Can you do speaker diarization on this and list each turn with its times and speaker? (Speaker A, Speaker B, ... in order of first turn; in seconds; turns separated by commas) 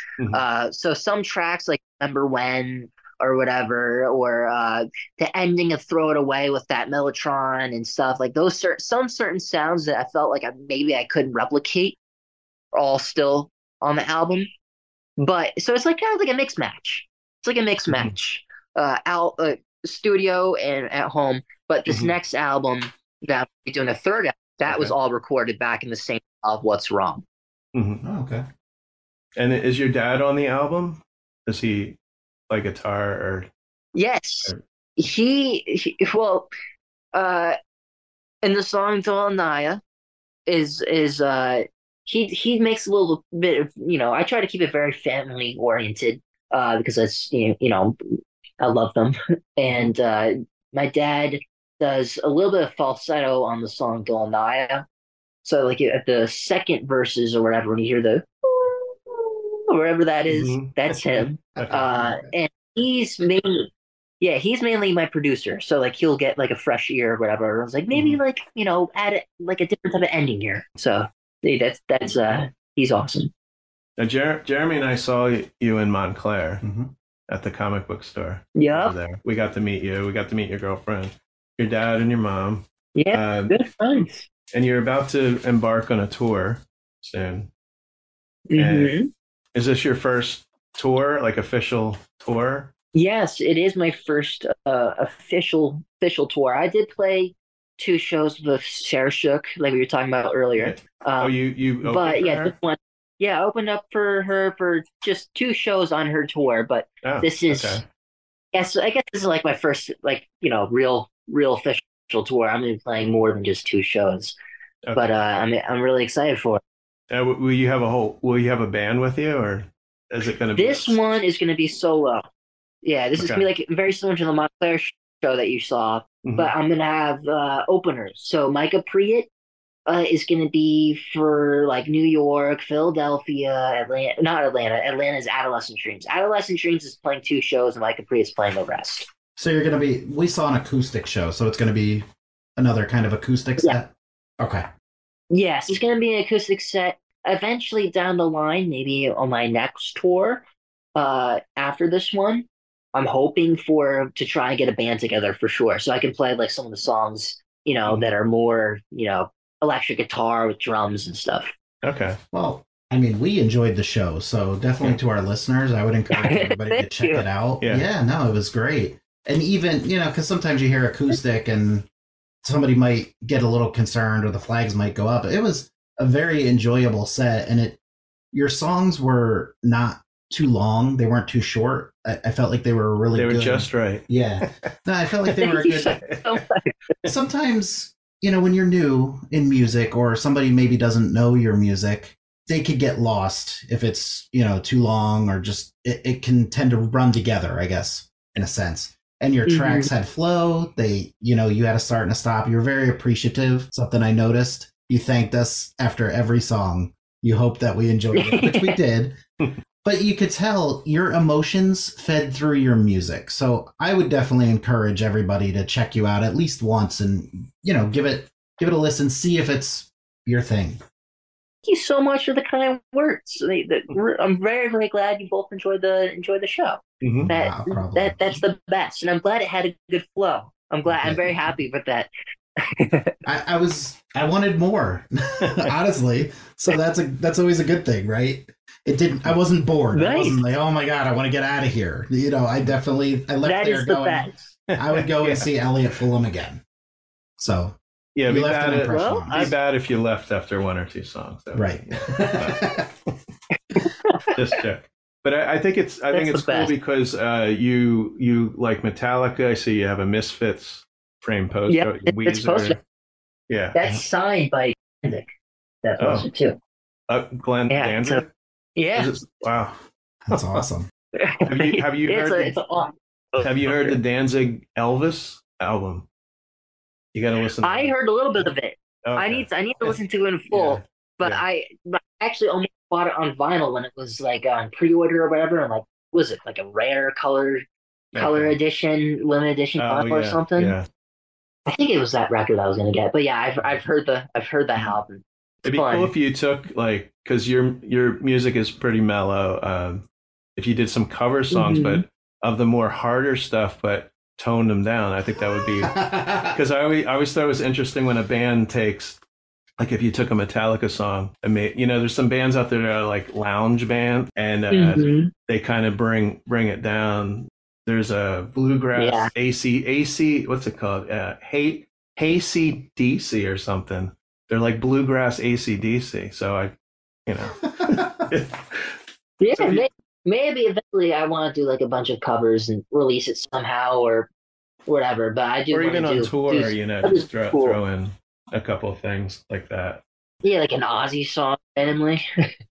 Speaker A: 0.3-12.0, Speaker A: 12.7-14.5, Speaker A: 15.2-27.2, Speaker B: 21.9-22.1, Speaker B: 24.7-24.9, Speaker B: 27.7-28.0, Speaker C: 28.0-28.4, Speaker B: 29.4-32.0, Speaker B: 32.5-33.5, Speaker A: 33.9-36.5, Speaker A: 37.1-37.6, Speaker A: 38.4-39.8, Speaker A: 40.5-48.0, Speaker A: 48.6-54.8, Speaker A: 55.4-63.7, Speaker B: 60.3-61.8, Speaker C: 61.6-62.3, Speaker A: 64.2-73.3, Speaker B: 67.9-68.2, Speaker B: 74.0-76.6, Speaker C: 76.6-76.9, Speaker B: 77.3-83.6, Speaker A: 78.5-79.0, Speaker A: 82.9-84.2, Speaker B: 84.5-87.5, Speaker A: 88.5-89.1, Speaker B: 88.5-89.0, Speaker B: 89.5-92.7, Speaker A: 92.9-101.3, Speaker B: 100.6-102.5, Speaker A: 101.8-107.8, Speaker B: 107.0-107.8, Speaker A: 108.5-114.3, Speaker B: 114.8-115.1, Speaker A: 114.9-116.6, Speaker B: 117.1-121.0, Speaker A: 120.5-122.3, Speaker A: 122.8-129.3, Speaker B: 123.2-123.5, Speaker B: 126.2-126.5, Speaker A: 129.8-139.1, Speaker C: 139.3-144.7, Speaker A: 145.3-150.4, Speaker A: 150.9-161.5, Speaker B: 161.8-162.2, Speaker C: 162.3-171.9, Speaker A: 166.1-167.2, Speaker C: 172.4-177.8, Speaker C: 178.3-186.0, Speaker B: 183.1-184.5, Speaker A: 185.4-186.7, Speaker B: 185.8-186.2, Speaker C: 187.0-209.2, Speaker A: 199.5-199.9, Speaker A: 208.1-208.8, Speaker C: 209.8-220.8, Speaker A: 221.6-232.1, Speaker B: 227.0-227.3, Speaker C: 227.2-228.2, Speaker C: 230.9-231.5, Speaker A: 232.6-233.1, Speaker C: 233.2-246.6, Speaker B: 235.4-235.7, Speaker A: 239.9-240.4, Speaker A: 243.4-244.5, Speaker B: 244.7-245.5, Speaker C: 247.4-249.5, Speaker B: 248.2-252.8, Speaker A: 248.9-249.5, Speaker C: 251.5-252.9, Speaker A: 253.8-254.5, Speaker B: 254.3-262.8, Speaker A: 256.1-256.7, Speaker A: 261.7-262.8, Speaker B: 263.5-263.8, Speaker A: 263.7-265.3, Speaker A: 265.8-266.6, Speaker B: 266.0-266.3, Speaker B: 267.1-268.3, Speaker A: 267.7-268.2, Speaker A: 268.8-269.1, Speaker B: 268.9-269.8, Speaker C: 270.3-270.9, Speaker B: 270.3-270.6, Speaker A: 271.2-272.9, Speaker B: 271.5-272.6, Speaker B: 273.4-276.1, Speaker A: 273.7-274.0, Speaker B: 277.1-278.5, Speaker A: 277.6-287.6, Speaker B: 279.0-280.0, Speaker B: 280.5-281.4, Speaker B: 288.1-288.6, Speaker A: 288.1-290.7, Speaker B: 289.8-290.9, Speaker A: 291.7-296.1, Speaker B: 295.6-300.0, Speaker B: 300.6-309.2, Speaker A: 301.5-302.0, Speaker C: 305.6-306.6, Speaker B: 309.8-326.8, Speaker A: 314.7-315.3, Speaker A: 318.9-319.3, Speaker B: 327.3-329.0, Speaker C: 327.7-328.3, Speaker A: 329.4-334.3, Speaker B: 329.5-329.9, Speaker A: 334.9-337.8, Speaker B: 335.7-340.0, Speaker A: 340.4-342.2